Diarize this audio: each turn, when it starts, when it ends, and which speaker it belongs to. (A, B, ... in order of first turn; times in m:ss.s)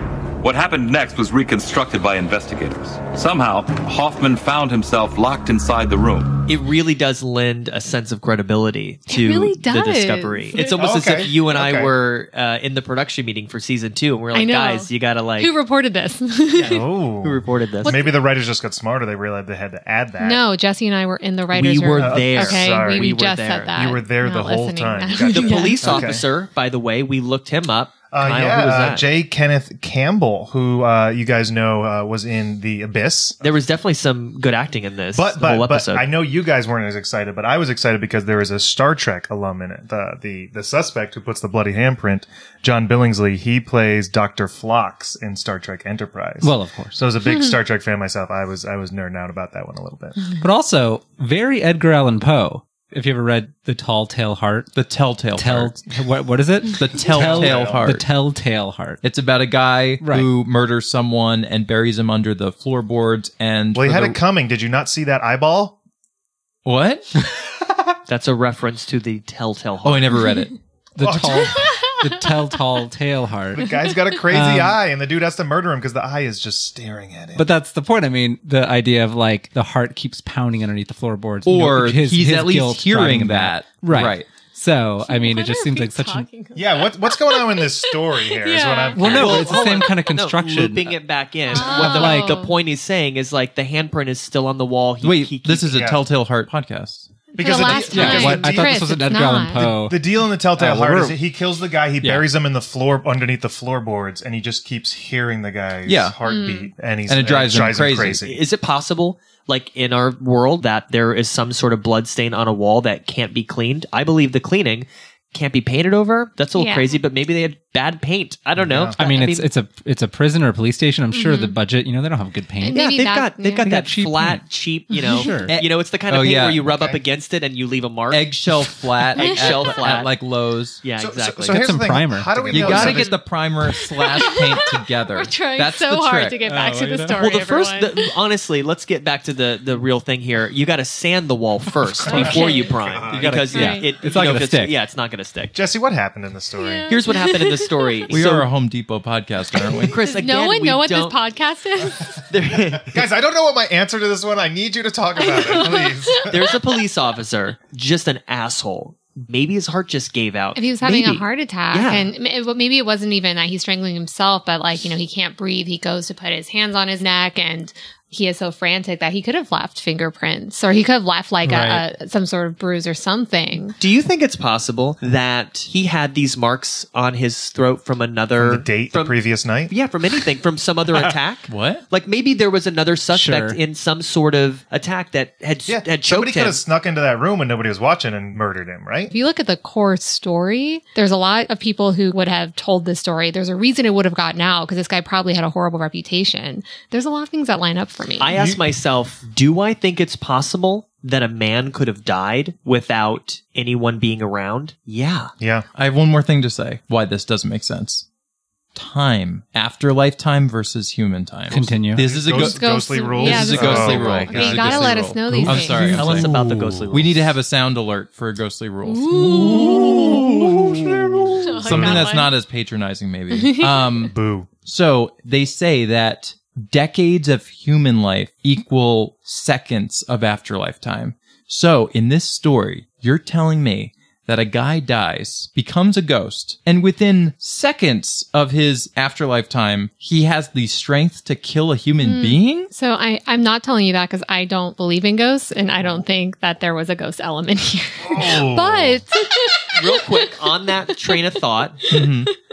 0:00.4-0:06.4 A
0:06.5-0:15.5 B
0:09.1-0:10.6 C
0:10.6-0:11.9 D
0:14.3-0:16.9 C
0:16.6-0:20.4 D
0:17.2-0:18.0 B
0:17.8-0:18.2 C
0:20.2-0:26.1 C
0:21.5-0:23.8 B
0:22.0-0:23.2 D
0:23.7-0:26.2 D
0:25.3-0:29.1 B
0:28.1-0:33.4 D
0:33.4-0:36.1 B
0:35.2-0:50.2 D
0:46.4-0:47.0 E
0:47.3-0:47.6 C
0:50.4-0:54.7 E
0:54.7-0:55.8 F
0:55.4-0:59.0 E
0:56.7-0:58.1 F
0:57.1-0:57.8 D
0:59.0-1:04.2 F
1:00.0-1:00.3 E
1:03.7-1:05.8 D
1:06.6-1:07.1 F
1:08.1-1:10.2 B
1:09.8-1:10.5 F
1:11.0-1:14.8 E
1:11.0-1:11.7 D
1:11.5-1:12.5 C
1:13.6-1:17.4 D
1:17.4-1:26.3 E
1:21.5-1:24.3 F
1:25.1-1:29.6 C
1:26.6-1:29.6 D
1:29.0-1:31.0 E
1:29.0-1:35.8 B
1:31.5-1:32.5 C
1:31.6-1:32.5 E
1:35.0-1:37.1 F
1:35.7-1:36.0 D
1:37.3-1:39.7 C
1:37.4-1:39.0 D
1:37.6-1:41.2 E
1:39.5-1:48.4 D
1:45.9-1:46.2 F
1:46.2-1:46.7 C
1:47.1-1:48.2 F
1:48.2-1:59.5 B
1:56.6-1:57.0 C
1:58.6-1:59.0 D
1:59.0-2:02.8 E
2:01.1-2:01.6 C
2:02.6-2:03.7 C
2:02.7-2:08.4 B
2:03.6-2:04.4 E
2:05.0-2:05.3 C
2:05.1-2:05.6 E
2:05.5-2:06.9 F
2:06.7-2:07.0 D
2:08.1-2:10.8 F
2:09.2-2:10.1 B
2:09.2-2:09.6 C
2:10.8-2:11.6 B
2:11.0-2:13.2 D
2:11.4-2:13.1 E
2:12.5-2:16.4 F
2:14.0-2:18.1 C
2:16.4-2:17.3 E
2:17.2-2:25.6 B
2:22.1-2:22.8 C
2:22.1-2:24.8 E
2:23.5-2:23.9 C
2:25.5-2:27.0 D
2:26.6-2:28.0 C
2:26.9-2:28.5 B
2:28.1-2:30.0 F
2:29.7-2:31.2 B
2:30.1-2:32.2 C
2:32.3-2:33.0 B
2:32.8-2:36.5 D
2:35.2-2:36.3 C
2:36.3-2:42.1 B
2:40.6-2:53.8 C
2:51.4-2:51.8 E
2:53.8-2:59.2 B
2:58.4-2:59.7 D
2:59.7-3:06.6 B
3:01.5-3:01.8 F
3:03.1-3:03.6 E
3:05.7-3:09.1 D
3:09.1-3:18.3 C
3:18.2-3:25.3 B
3:18.3-3:18.6 D
3:25.4-3:25.7 D
3:25.8-3:28.0 F
3:28.8-3:40.2 F
3:31.5-3:32.0 E
3:32.0-3:36.8 D
3:32.3-3:36.0 C
3:35.7-3:37.3 B
3:38.9-3:40.3 C
3:39.3-3:42.1 D
3:41.4-3:42.3 C
3:41.6-4:02.7 F
3:43.3-3:44.0 C
3:44.1-3:44.5 D
4:02.0-4:10.3 C
4:08.0-4:09.0 D
4:09.7-4:11.9 B
4:11.9-4:12.3 F